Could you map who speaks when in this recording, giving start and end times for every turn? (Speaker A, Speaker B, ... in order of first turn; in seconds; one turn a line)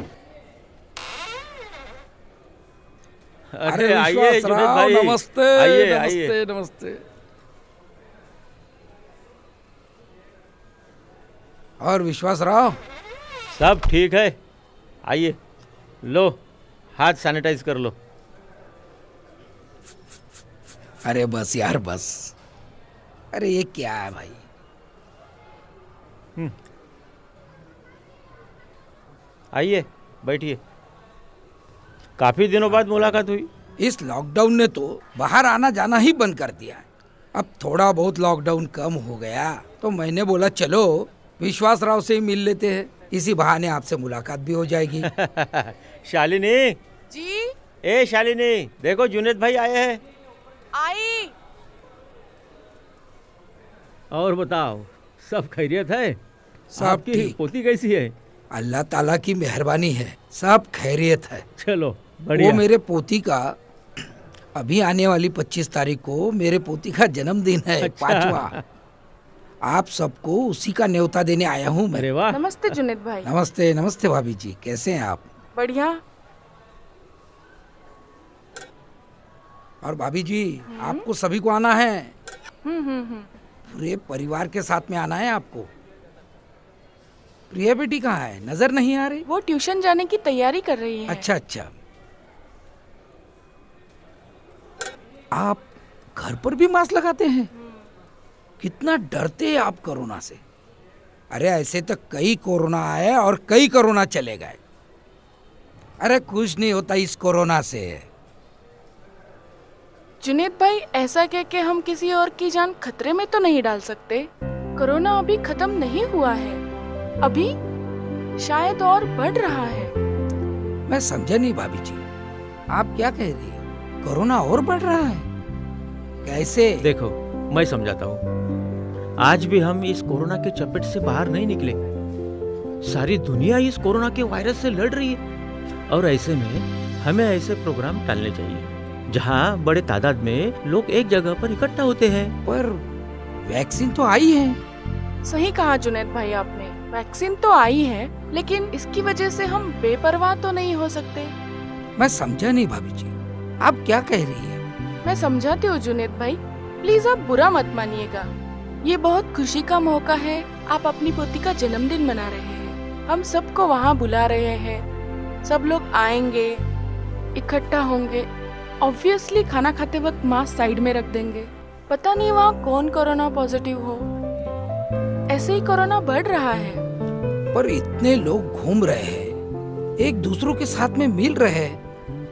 Speaker A: 3.5-6.3
Speaker B: 3.6-7.0
Speaker B: 11.8-12.8
Speaker A: 13.6-14.3
Speaker A: 15.0-15.4
Speaker A: 16.0-16.4
Speaker A: 16.9-17.9
Speaker B: 21.0-22.3
Speaker B: 23.3-24.4
Speaker A: 29.5-30.6
Speaker A: 32.2-33.5
Speaker B: 33.8-45.1
Speaker A: 45.0-46.8
Speaker C: 47.1-47.5
Speaker A: 47.8-50.0
Speaker C: 50.7-51.3
Speaker A: 54.1-56.2
Speaker B: 56.7-57.5
Speaker A: 56.8-58.1
Speaker B: 58.5-61.5
Speaker A: 61.6-62.6
Speaker B: 62.3-63.5
Speaker B: 64.5-68.5
Speaker A: 67.8-68.6
Speaker B: 69.6-72.1
Speaker A: 71.9-72.4
Speaker C: 72.3-73.3
Speaker B: 73.2-75.3
Speaker C: 75.5-76.0
Speaker B: 79.8-82.1
Speaker C: 80.7-81.0
Speaker C: 82.6-83.3
Speaker B: 83.7-85.7
Speaker B: 87.5-89.2
Speaker C: 89.2-91.3
Speaker B: 91.1-91.7
Speaker B: 95.3-97.5
Speaker B: 98.6-100.4
Speaker B: 101.3-104.6
Speaker B: 106.0-108.1
Speaker C: 110.2-116.6
Speaker C: 117.2-117.5
Speaker C: 118.4-119.9
Speaker B: 120.9-122.0
Speaker B: 122.7-125.3
Speaker B: 126.2-126.9
Speaker A: 126.8-128.2
Speaker A: 129.2-131.8
Speaker A: 132.8-135.2
Speaker A: 135.9-142.3
Speaker B: 142.4-142.8
Speaker B: 143.4-144.6
Speaker C: 145.2-151.3
Speaker B: 152.0-154.6
Speaker C: 155.0-158.3
Speaker C: 158.8-164.8
Speaker C: 165.4-166.6
Speaker C: 167.3-168.3
Speaker C: 168.8-174.0
Speaker C: 175.3-176.8
Speaker B: 177.5-179.3
Speaker B: 180.0-181.8